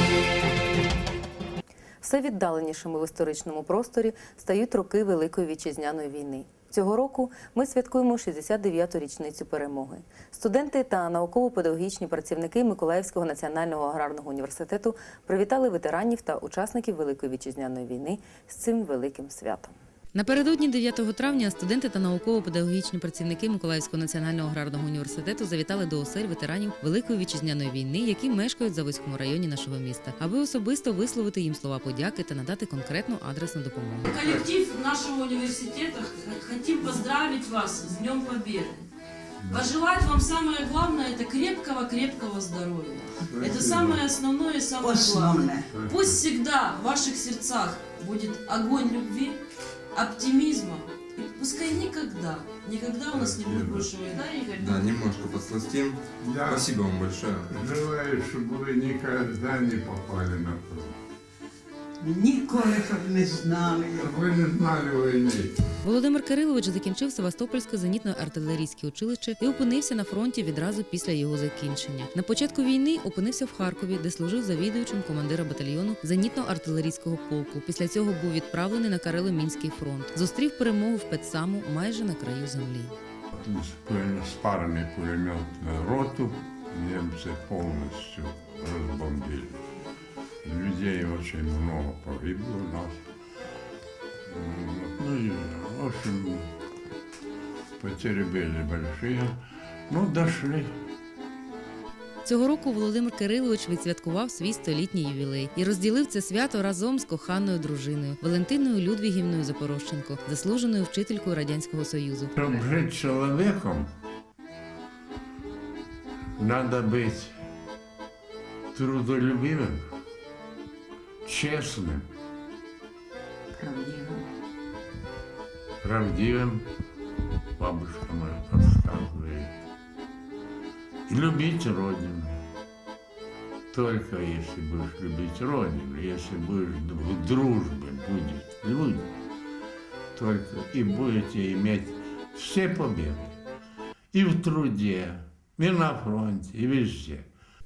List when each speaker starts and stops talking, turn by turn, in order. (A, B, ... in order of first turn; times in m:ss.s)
0:02.0-0:34.1 A
0:34.0-0:38.9 B
0:39.5-0:49.4 B
0:43.3-0:44.0 C
0:44.8-0:45.7 D
0:45.7-0:46.2 C
0:49.9-0:54.9 B
0:53.1-0:53.9 C
0:54.6-0:57.5 E
0:56.2-0:56.7 C
0:57.5-1:01.0 C
1:02.0-1:04.0 D
1:03.9-1:05.5 C
1:05.8-1:23.0 A
1:23.3-1:29.6 C
1:30.4-1:33.0 C
1:34.3-1:36.5 C
1:37.8-1:39.4 C
1:39.9-1:40.7 C
1:42.2-1:52.3 A
1:52.4-1:53.9 C
1:56.4-1:57.3 C
1:58.7-1:59.9 C
2:01.2-2:02.1 C
2:03.6-2:04.2 D
2:05.8-2:06.7 C
2:07.6-2:09.5 C
2:11.1-2:12.4 C
2:13.7-2:19.1 C
2:20.2-2:23.4 C
2:24.1-2:27.3 C